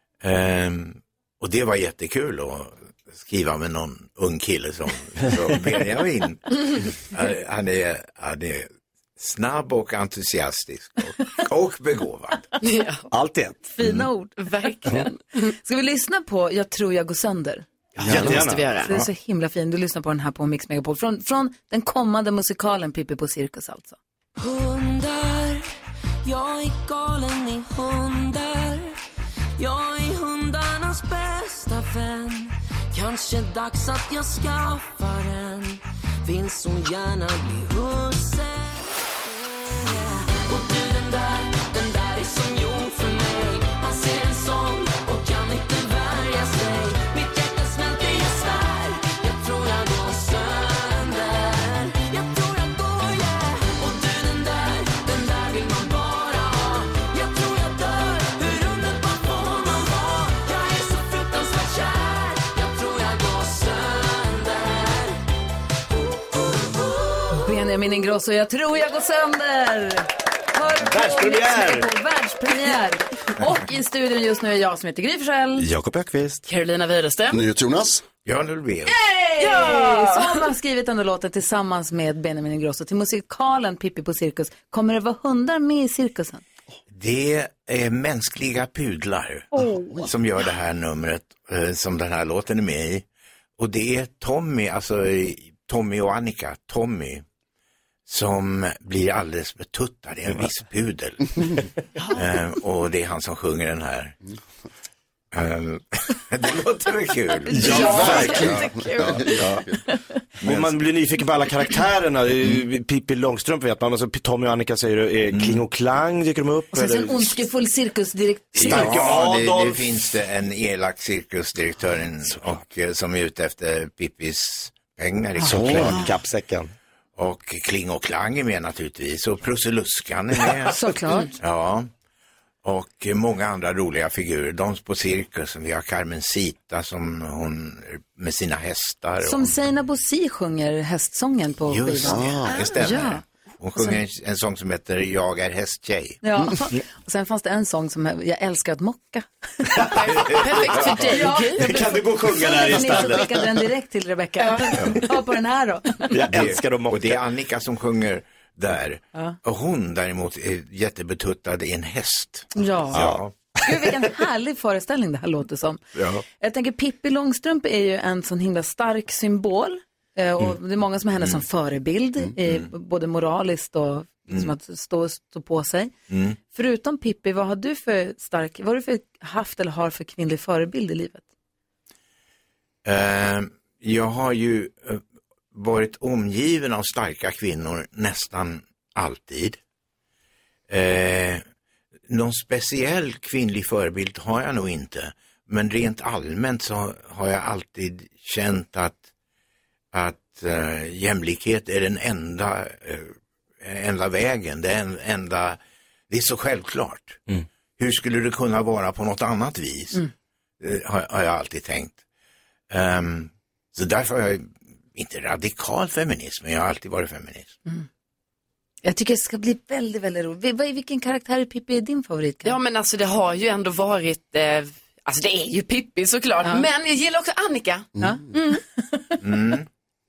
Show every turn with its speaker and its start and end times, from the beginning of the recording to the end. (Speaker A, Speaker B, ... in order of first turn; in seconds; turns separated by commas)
Speaker A: 0.2-12.5, Speaker B: 12.6-13.1, Speaker C: 13.1-13.9, Speaker D: 13.8-17.6, Speaker B: 14.4-15.2, Speaker B: 18.0-19.0, Speaker E: 18.0-18.3, Speaker C: 18.0-18.7, Speaker D: 18.8-24.0, Speaker F: 24.4-25.7, Speaker F: 26.2-29.0, Speaker F: 29.6-65.2, Speaker F: 66.5-67.2, Speaker D: 67.3-75.7, Speaker C: 70.8-71.9, Speaker C: 75.6-76.4, Speaker B: 76.5-77.4, Speaker E: 77.3-78.0, Speaker A: 78.2-79.0, Speaker D: 78.9-86.4, Speaker B: 79.4-80.3, Speaker A: 86.9-93.0, Speaker D: 89.5-89.8, Speaker A: 93.6-97.2, Speaker A: 98.1-101.2, Speaker A: 102.1-104.2, Speaker A: 105.3-109.7, Speaker C: 107.5-108.7, Speaker D: 107.6-108.3, Speaker B: 107.6-109.0, Speaker E: 107.7-109.7, Speaker A: 110.4-110.7, Speaker C: 110.4-117.3, Speaker A: 115.3-115.6, Speaker D: 116.7-119.0, Speaker A: 118.6-126.1, Speaker C: 118.6-120.0, Speaker C: 125.5-126.7, Speaker A: 127.2-130.8, Speaker D: 130.7-131.3, Speaker A: 131.4-131.9, Speaker A: 132.6-139.5, Speaker D: 139.2-143.2, Speaker A: 141.7-146.2, Speaker E: 142.1-142.7, Speaker D: 146.2-149.9, Speaker B: 149.9-151.8, Speaker C: 150.8-153.6, Speaker D: 150.8-156.1, Speaker B: 154.4-154.7, Speaker C: 156.1-157.2, Speaker A: 156.3-163.3, Speaker D: 162.5-163.0, Speaker C: 162.9-163.2, Speaker D: 163.6-165.8, Speaker A: 166.0-166.2, Speaker D: 166.4-175.9, Speaker A: 172.4-172.7, Speaker A: 176.1-176.4, Speaker D: 176.5-181.2, Speaker A: 182.8-185.0, Speaker A: 185.5-189.6, Speaker A: 190.7-191.4, Speaker A: 192.1-199.1, Speaker A: 199.9-205.6, Speaker A: 206.1-207.2, Speaker A: 207.8-210.0, Speaker A: 210.6-212.0, Speaker A: 212.7-217.6, Speaker D: 218.8-222.6, Speaker B: 222.4-228.6, Speaker D: 228.0-228.6, Speaker A: 229.2-229.7